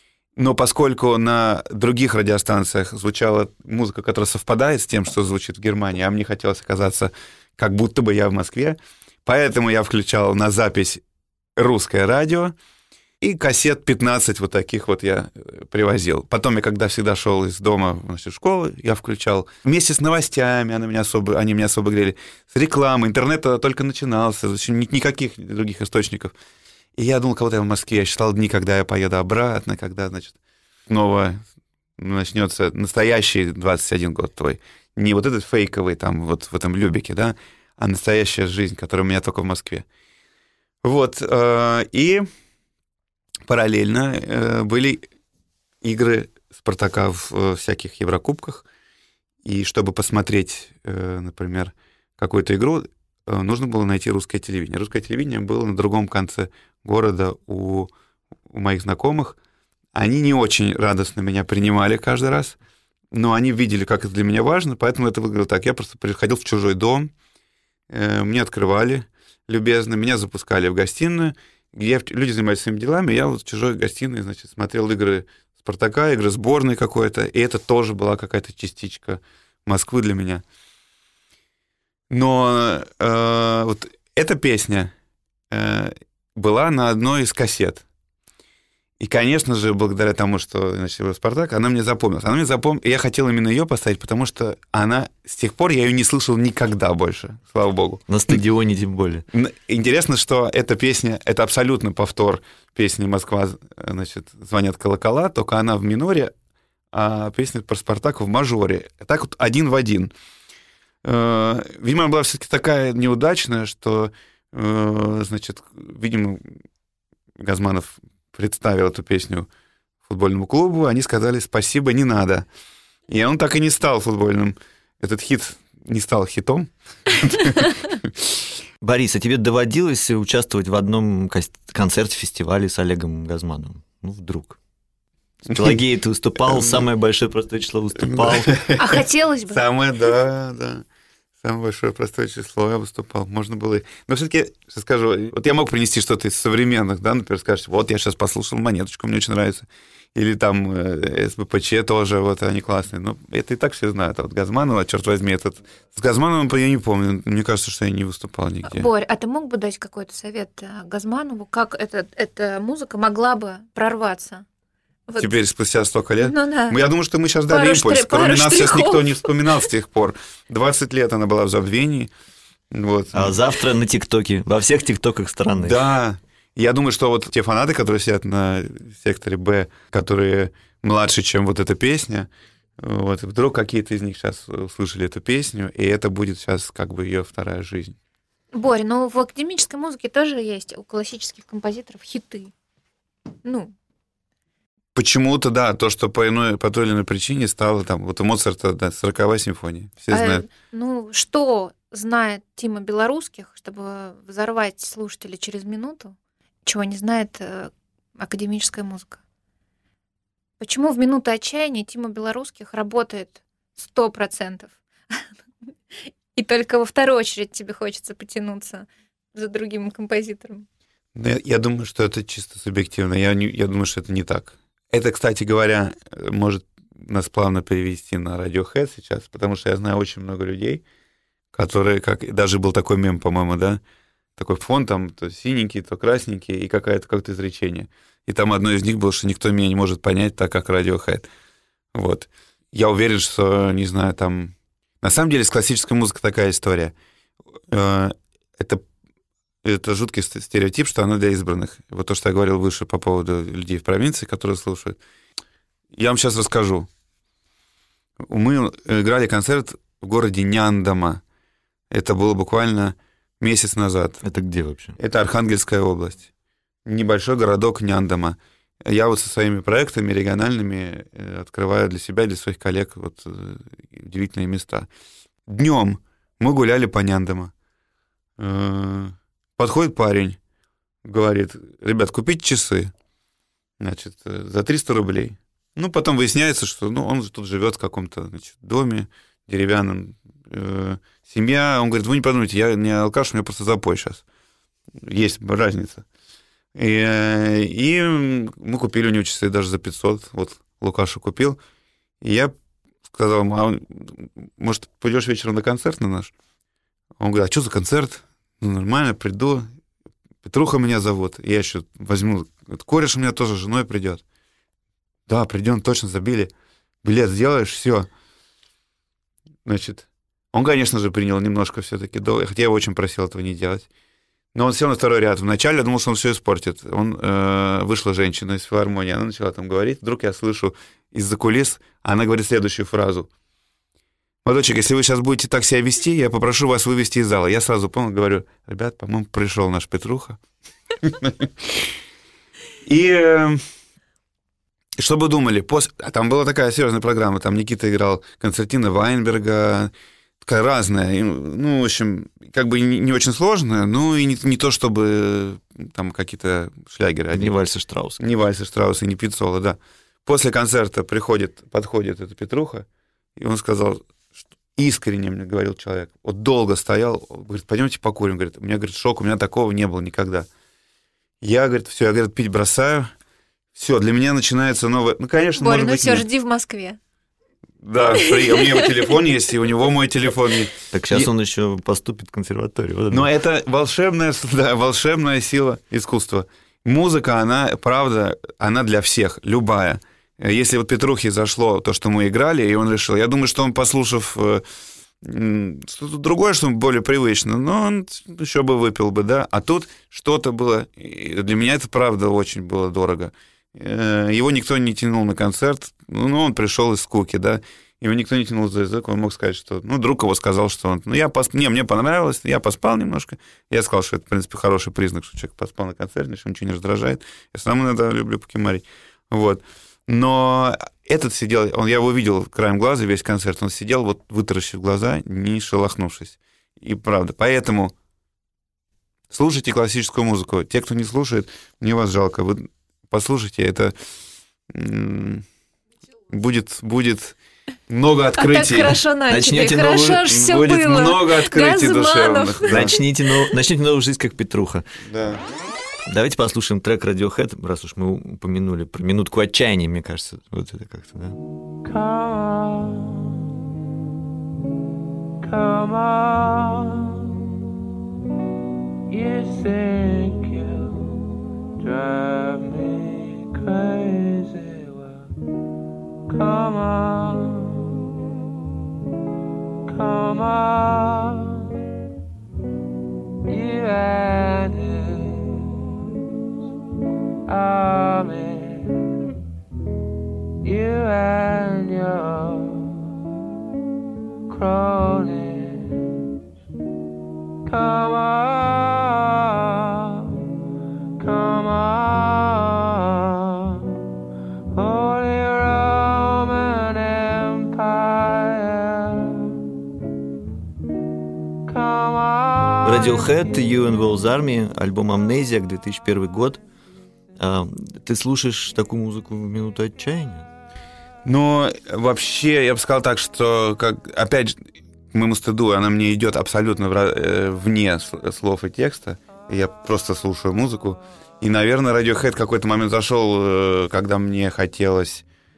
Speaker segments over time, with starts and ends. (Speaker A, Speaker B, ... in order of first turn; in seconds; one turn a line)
Speaker A: 0.4-11.0
Speaker A: 11.6-12.5
Speaker A: 13.2-26.3
Speaker A: 27.0-30.3
Speaker A: 30.9-31.4
Speaker A: 32.0-39.8
Speaker A: 40.8-42.3
Speaker A: 43.5-45.0
Speaker A: 45.8-48.6
Speaker A: 49.4-57.9
Speaker A: 58.5-59.4
Speaker A: 59.9-62.6
Speaker A: 63.1-67.1
Speaker A: 67.9-80.4
Speaker A: 82.1-84.9
Speaker A: 85.5-87.8
Speaker A: 89.0-98.4
Speaker B: 98.1-99.2
Speaker A: 99.3-106.3
Speaker A: 106.9-110.1
Speaker A: 111.0-116.5
Speaker A: 117.4-119.5
Speaker A: 120.0-122.5
Speaker A: 123.1-128.3
Speaker B: 128.8-134.6
Speaker B: 135.5-138.5
Speaker A: 138.0-140.8
Speaker C: 138.8-139.6
Speaker A: 141.4-158.9
Speaker C: 158.7-164.4
Speaker C: 165.1-165.3
Speaker A: 165.2-172.1
Speaker C: 166.2-166.8
Speaker C: 167.5-169.3
Speaker A: 172.7-173.4
Speaker B: 173.1-175.8
Speaker A: 175.6-188.0
Speaker C: 188.5-192.5
Speaker C: 193.4-193.7
Speaker A: 194.9-200.4
Speaker C: 200.1-209.2
Speaker C: 210.6-215.3
Speaker C: 215.9-220.7
Speaker A: 221.1-230.8
Speaker A: 231.5-233.8
Speaker A: 234.3-241.3
Speaker A: 241.9-246.9
Speaker A: 247.7-248.8
Speaker A: 249.6-255.0
Speaker A: 255.9-256.9
Speaker A: 258.2-261.2
Speaker A: 261.9-264.2
Speaker B: 264.2-264.9
Speaker A: 265.0-266.3
Speaker A: 266.9-274.9
Speaker A: 275.5-277.5
Speaker A: 278.4-280.4
Speaker A: 281.0-282.9
Speaker A: 283.8-294.2
Speaker A: 295.0-296.0
Speaker A: 296.8-301.6
Speaker A: 302.2-302.5
Speaker A: 303.1-306.3
Speaker A: 307.2-309.7
Speaker A: 310.4-314.2
Speaker A: 315.3-316.5
Speaker A: 317.0-318.1
Speaker A: 319.6-323.9
Speaker A: 324.5-333.3
Speaker A: 334.4-340.4
Speaker A: 341.0-341.9
Speaker A: 342.8-343.6
Speaker A: 345.0-357.5
Speaker B: 357.3-358.2
Speaker A: 358.2-362.9
Speaker A: 363.4-364.0
Speaker A: 364.8-370.5
Speaker A: 371.4-373.1
Speaker A: 373.7-376.2
Speaker C: 375.6-377.0
Speaker A: 377.8-381.3
Speaker C: 378.2-378.8
Speaker B: 380.9-383.3
Speaker A: 383.1-394.6
Speaker A: 395.2-427.9
Speaker A: 429.3-433.9
Speaker A: 434.7-435.4
Speaker A: 436.3-437.3
Speaker A: 437.9-439.0
Speaker C: 438.4-443.0
Speaker B: 439.3-440.2
Speaker A: 440.2-443.0
Speaker B: 442.7-444.9
Speaker A: 445.1-445.4
Speaker B: 446.1-451.4
Speaker D: 451.8-453.4
Speaker D: 455.4-457.4
Speaker D: 459.1-465.3
Speaker D: 466.3-468.0
Speaker D: 469.9-471.7
Speaker D: 473.4-475.8
Speaker D: 477.5-479.2
Speaker D: 480.6-483.1
Speaker D: 484.5-486.2
Speaker D: 487.6-490.4
Speaker D: 491.2-493.9
Speaker D: 494.7-499.6
Speaker D: 501.6-503.5
Speaker B: 502.8-506.6
Speaker B: 507.4-510.5
Speaker A: 511.2-514.6
Speaker A: 515.1-525.2